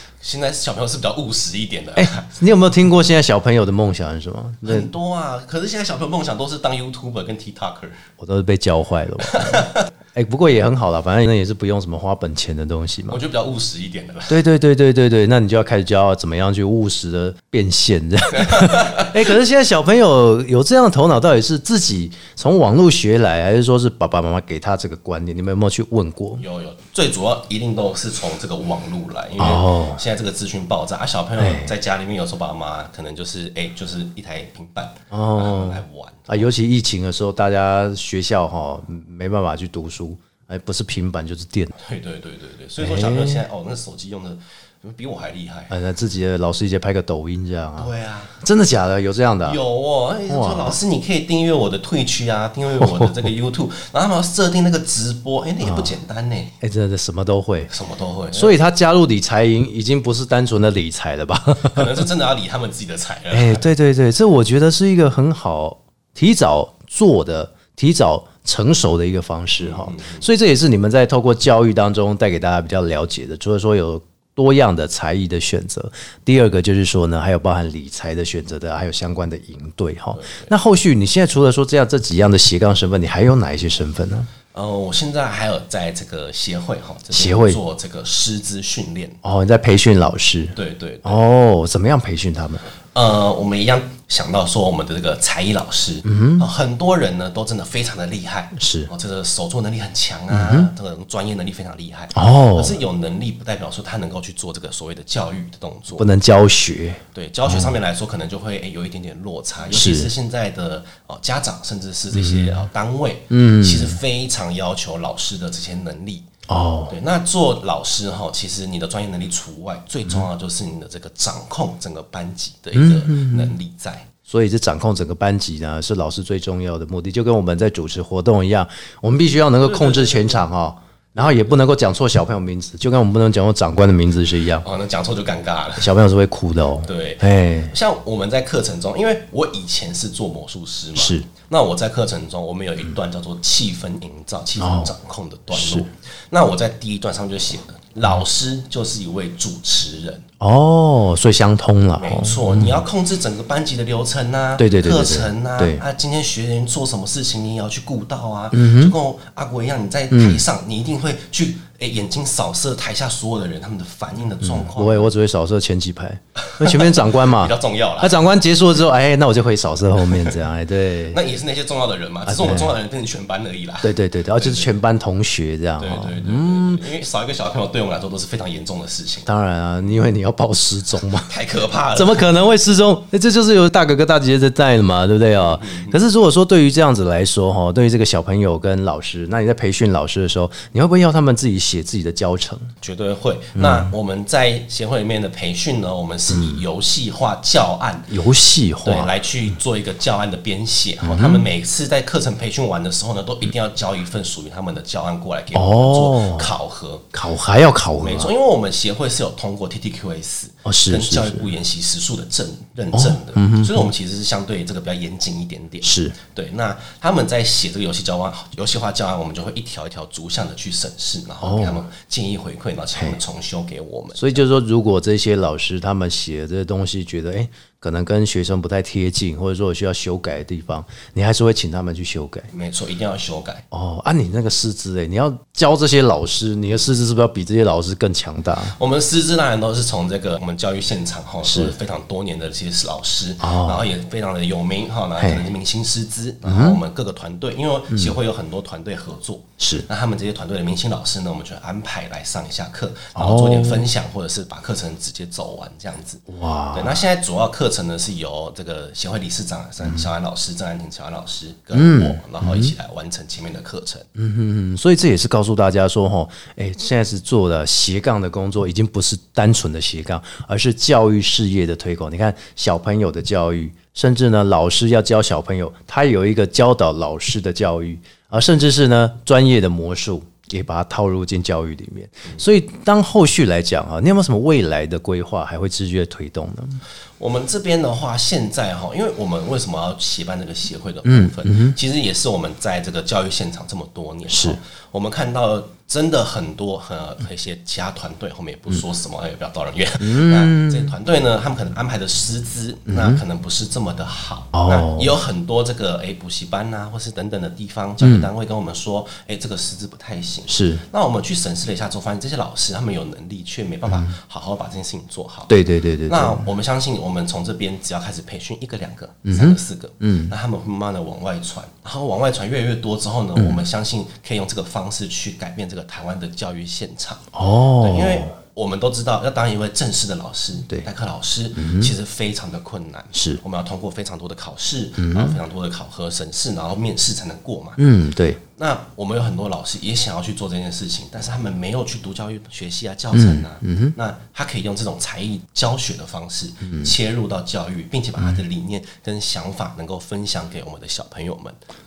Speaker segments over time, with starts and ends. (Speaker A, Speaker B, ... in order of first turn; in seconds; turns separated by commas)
Speaker A: 0.2-2.3, Speaker B: 2.0-4.9, Speaker A: 4.6-8.0, Speaker B: 8.2-13.2, Speaker A: 9.2-9.8, Speaker A: 13.1-14.4, Speaker B: 14.3-26.4, Speaker A: 18.4-19.2, Speaker A: 26.4-36.5, Speaker B: 29.4-30.0, Speaker B: 31.4-31.7, Speaker B: 35.1-41.7, Speaker A: 41.8-45.7, Speaker B: 42.8-43.4, Speaker B: 45.7-49.6, Speaker A: 47.8-48.4, Speaker A: 49.4-56.5, Speaker B: 50.3-50.8, Speaker B: 52.8-53.1, Speaker B: 55.6-55.9, Speaker B: 56.6-57.7, Speaker A: 57.7-58.6, Speaker B: 58.3-62.0, Speaker A: 61.7-63.6, Speaker B: 63.3-84.3, Speaker A: 69.6-70.2, Speaker A: 80.1-80.5, Speaker A: 84.5-89.2, Speaker B: 87.1-87.6, Speaker B: 89.2-92.6, Speaker A: 90.5-91.2, Speaker A: 92.9-106.1, Speaker B: 96.0-96.5, Speaker B: 98.5-98.9, Speaker B: 100.3-100.7, Speaker B: 102.1-102.8, Speaker B: 106.0-107.7, Speaker A: 107.1-116.3, Speaker B: 109.7-110.1, Speaker B: 112.1-112.7, Speaker B: 113.3-114.0, Speaker B: 116.5-117.0, Speaker A: 116.9-124.1, Speaker B: 122.8-123.5, Speaker B: 124.3-134.7, Speaker A: 129.6-130.4, Speaker A: 134.6-136.0, Speaker B: 135.8-137.7, Speaker A: 136.8-150.2, Speaker B: 141.0-141.3, Speaker B: 144.6-144.9, Speaker B: 145.5-145.9, Speaker B: 150.4-152.8, Speaker A: 152.0-165.1, Speaker B: 154.6-155.8, Speaker B: 158.5-158.9, Speaker B: 160.1-160.4, Speaker B: 164.4-171.2, Speaker A: 166.5-168.2, Speaker A: 170.0-170.4, Speaker A: 171.1-174.8, Speaker B: 172.3-172.8, Speaker B: 173.8-176.8, Speaker A: 175.8-179.3, Speaker B: 179.3-181.3, Speaker A: 181.2-182.3, Speaker B: 181.9-192.7, Speaker A: 185.3-186.0, Speaker A: 192.8-198.1, Speaker B: 193.6-193.9, Speaker B: 196.3-196.6, Speaker B: 198.1-199.1, Speaker A: 198.8-207.1, Speaker B: 201.0-201.4, Speaker B: 205.5-206.5, Speaker B: 207.1-208.3, Speaker A: 208.0-224.4, Speaker B: 210.7-211.5, Speaker B: 212.9-213.9, Speaker B: 215.8-216.2, Speaker B: 221.4-221.8, Speaker B: 224.2-232.5, Speaker A: 232.5-233.6, Speaker B: 233.7-238.8, Speaker A: 238.8-264.1, Speaker B: 241.4-241.7, Speaker B: 243.4-243.9, Speaker B: 245.2-245.5, Speaker B: 246.4-246.8, Speaker B: 249.6-249.9, Speaker B: 253.2-253.9, Speaker B: 256.3-257.0, Speaker B: 261.7-262.7, Speaker B: 264.2-286.8, Speaker A: 287.2-315.6, Speaker B: 291.1-291.8, Speaker B: 294.3-294.6, Speaker B: 300.0-300.9, Speaker B: 302.9-303.2, Speaker B: 304.5-305.1, Speaker B: 308.0-308.3, Speaker B: 310.5-310.8, Speaker B: 315.5-316.5, Speaker A: 316.1-337.8, Speaker B: 319.2-320.3, Speaker B: 327.3-328.4, Speaker B: 331.6-331.9, Speaker B: 333.1-333.4, Speaker B: 335.0-335.4, Speaker B: 337.8-338.4, Speaker A: 338.5-351.6, Speaker B: 343.1-343.9, Speaker B: 346.6-346.9